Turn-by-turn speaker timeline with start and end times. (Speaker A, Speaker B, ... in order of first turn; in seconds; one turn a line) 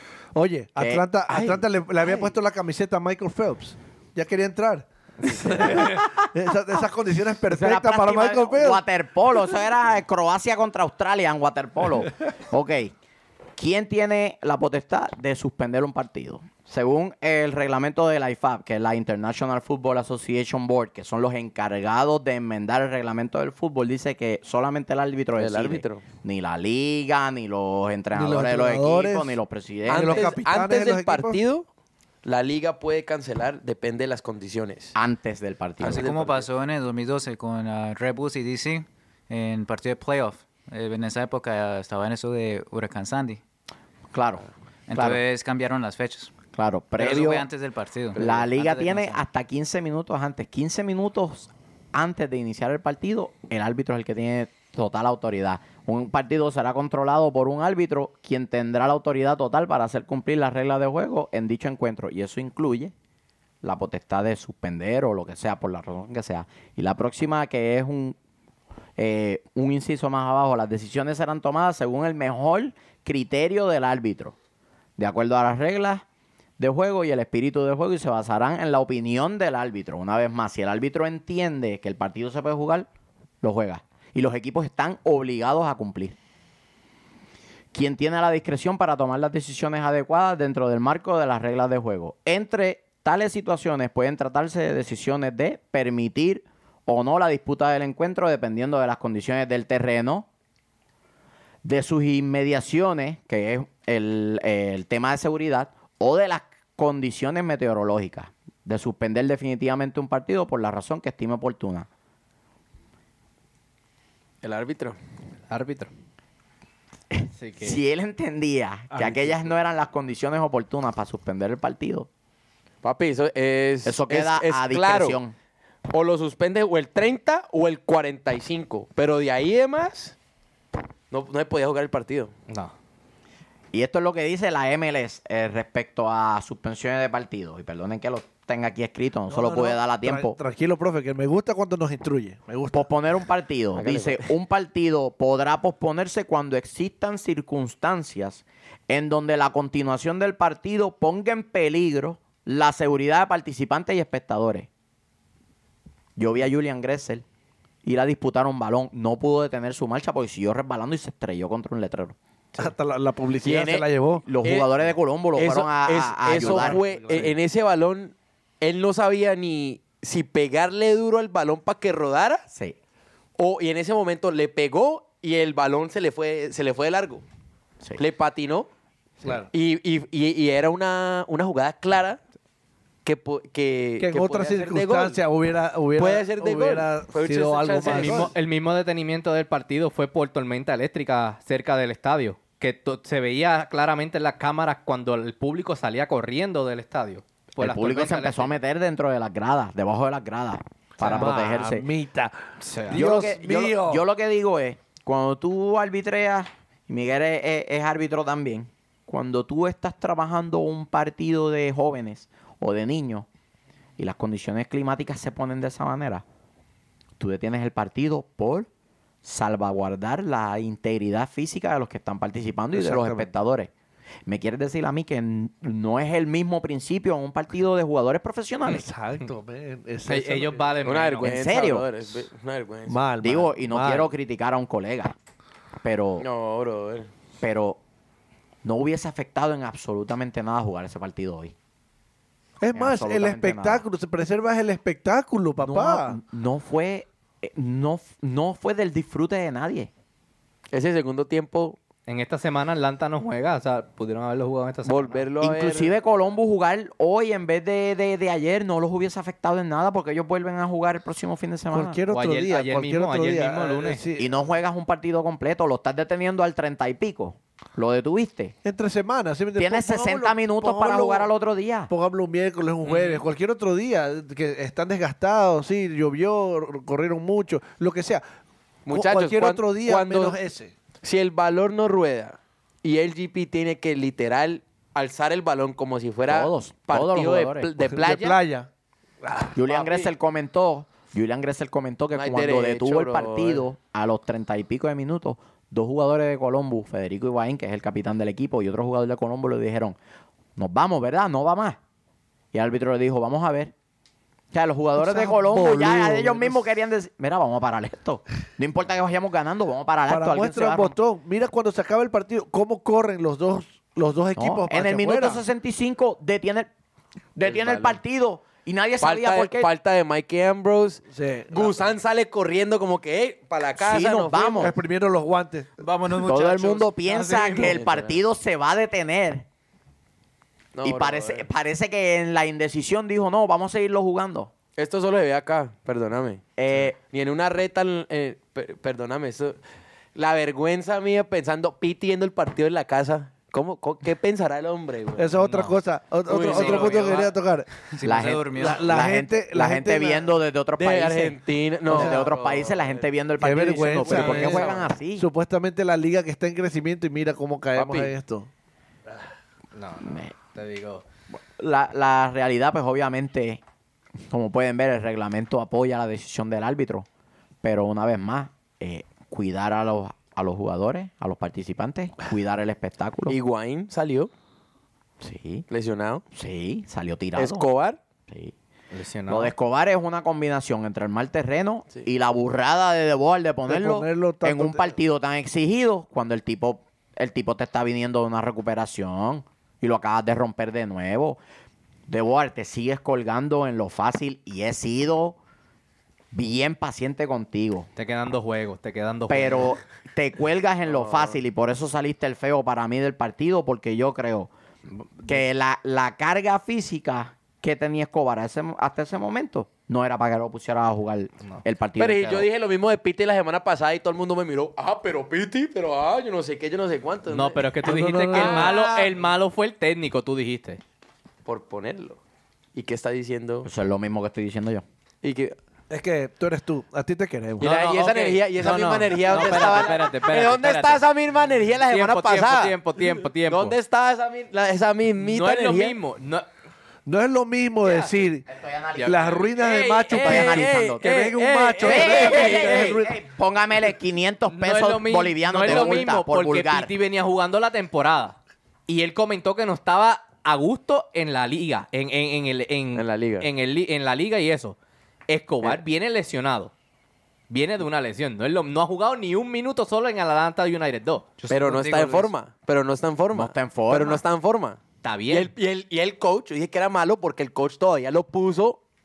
Speaker A: 0.3-8.8
Speaker B: 0.8-1.6
Speaker C: 5.3-5.9
Speaker B: 5.6-5.9
Speaker B: 7.5-12.9
Speaker B: 13.6-30.3
Speaker D: 25.4-26.0
Speaker A: 28.1-29.4
Speaker D: 29.9-31.6
Speaker A: 29.9-31.4
Speaker D: 32.2-34.9
Speaker B: 34.9-36.1
Speaker D: 35.8-36.5
Speaker E: 35.8-43.4
Speaker B: 44.1-45.2
Speaker E: 44.9-46.3
Speaker B: 46.5-47.5
Speaker E: 47.0-49.2
Speaker B: 48.1-62.9
Speaker B: 63.6-68.2
Speaker B: 69.0-74.3
Speaker B: 75.0-76.0
Speaker B: 76.6-82.9
Speaker B: 83.4-86.2
Speaker B: 87.7-100.3
Speaker B: 101.6-111.9
Speaker D: 114.4-115.0
Speaker C: 115.5-115.9
Speaker B: 117.1-122.1
Speaker C: 117.4-117.8
Speaker D: 122.8-125.2
Speaker B: 123.8-125.3
Speaker D: 125.9-130.2
Speaker D: 131.1-132.3
Speaker C: 132.5-132.7
Speaker B: 133.7-140.4
Speaker A: 139.3-142.9
Speaker B: 142.7-154.7
Speaker D: 143.7-144.3
Speaker B: 156.2-157.2
Speaker B: 157.8-162.2
Speaker A: 162.6-164.2
Speaker D: 163.4-163.9
Speaker B: 164.2-166.8
Speaker D: 164.4-164.7
Speaker D: 165.3-172.4
Speaker A: 166.3-167.3
Speaker D: 173.4-177.2
Speaker D: 178.0-178.7
Speaker A: 179.2-179.5
Speaker D: 179.3-182.2
Speaker D: 183.0-185.2
Speaker A: 184.0-188.3
Speaker D: 185.9-188.3
Speaker C: 187.8-198.5
Speaker B: 197.6-201.9
Speaker A: 201.0-202.3
Speaker C: 201.0-201.3
Speaker C: 202.6-203.0
Speaker A: 202.8-204.0
Speaker B: 202.9-213.3
Speaker B: 214.0-216.2
Speaker B: 217.2-218.7
Speaker B: 219.2-223.7
Speaker A: 222.7-223.3
Speaker B: 224.3-228.8
Speaker A: 228.7-230.8
Speaker C: 230.1-231.4
Speaker D: 230.8-233.0
Speaker B: 231.2-231.9
Speaker A: 232.9-234.1
Speaker B: 233.2-235.1
Speaker B: 235.8-236.2
Speaker D: 236.2-237.1
Speaker B: 237.4-237.8
Speaker B: 238.6-241.5
Speaker A: 242.6-246.2
Speaker B: 242.7-243.8
Speaker B: 245.6-249.9
Speaker D: 250.7-251.8
Speaker C: 252.1-255.2
Speaker D: 254.8-255.9
Speaker B: 255.4-262.0
Speaker A: 261.7-264.3
Speaker C: 262.1-264.0
Speaker B: 264.1-268.5
Speaker A: 268.6-271.3
Speaker B: 269.6-271.9
Speaker A: 271.9-278.2
Speaker C: 272.9-273.1
Speaker D: 278.9-280.4
Speaker A: 278.9-280.7
Speaker D: 281.0-288.4
Speaker B: 286.3-287.7
Speaker A: 287.9-288.7
Speaker A: 289.2-289.6
Speaker B: 289.5-300.0
Speaker D: 289.7-290.1
Speaker D: 292.1-293.6
Speaker B: 300.6-301.8
Speaker B: 302.5-303.7
Speaker B: 304.5-311.0
Speaker A: 305.0-306.7
Speaker A: 310.1-315.4
Speaker B: 314.4-316.7
Speaker B: 317.3-319.7
Speaker D: 317.4-318.0
Speaker D: 319.0-324.7
Speaker A: 321.1-321.8
Speaker B: 323.8-324.7
Speaker A: 324.6-325.9
Speaker E: 325.8-327.8
Speaker B: 326.1-329.4
Speaker D: 327.6-328.2
Speaker D: 330.7-331.5
Speaker B: 330.8-334.5
Speaker D: 334.8-336.4
Speaker B: 336.6-337.0
Speaker D: 337.0-339.6
Speaker D: 340.1-345.4
Speaker A: 345.2-347.7
Speaker C: 345.4-345.7
Speaker D: 346.3-347.3
Speaker E: 346.5-346.9
Speaker C: 346.5-346.8
Speaker E: 347.9-349.0
Speaker B: 348.0-355.3
Speaker A: 348.6-350.3
Speaker D: 350.8-353.1
Speaker A: 351.9-352.2
Speaker A: 353.4-358.5
Speaker D: 354.0-354.9
Speaker D: 357.7-358.1
Speaker C: 359.7-361.0
Speaker B: 360.0-360.3
Speaker B: 361.3-363.6
Speaker B: 364.3-367.1
Speaker B: 367.6-373.4
Speaker D: 373.3-374.3
Speaker B: 375.2-375.6
Speaker D: 375.7-376.2
Speaker B: 376.3-377.7
Speaker D: 377.3-378.0
Speaker B: 378.3-378.5
Speaker C: 378.9-379.5
Speaker B: 379.3-391.4
Speaker A: 383.7-384.9
Speaker B: 392.1-395.4
Speaker B: 396.3-397.9
Speaker C: 397.9-399.7
Speaker B: 399.3-404.5
Speaker D: 400.9-401.4
Speaker C: 405.0-405.3
Speaker B: 405.2-412.5
Speaker D: 412.0-417.7
Speaker C: 417.3-420.8
Speaker A: 417.8-419.1
Speaker D: 418.3-418.8
Speaker D: 421.4-422.2
Speaker D: 422.7-423.7
Speaker B: 423.6-424.8
Speaker D: 425.2-425.6
Speaker A: 425.9-427.7
Speaker D: 427.6-436.0
Speaker C: 427.6-431.0
Speaker C: 431.9-433.7
Speaker C: 435.2-436.5
Speaker A: 437.1-438.4
Speaker C: 437.8-438.1
Speaker B: 438.5-439.4
Speaker C: 439.0-439.8
Speaker A: 439.0-443.2
Speaker D: 439.6-443.0
Speaker B: 440.1-441.0
Speaker B: 441.8-446.9
Speaker C: 442.1-442.9
Speaker C: 444.5-448.4
Speaker D: 445.7-446.0
Speaker C: 448.9-454.8
Speaker D: 452.9-453.5
Speaker C: 455.3-456.7
Speaker C: 457.5-461.3
Speaker E: 461.4-462.3
Speaker D: 461.5-468.8
Speaker B: 463.3-464.2
Speaker C: 465.0-465.5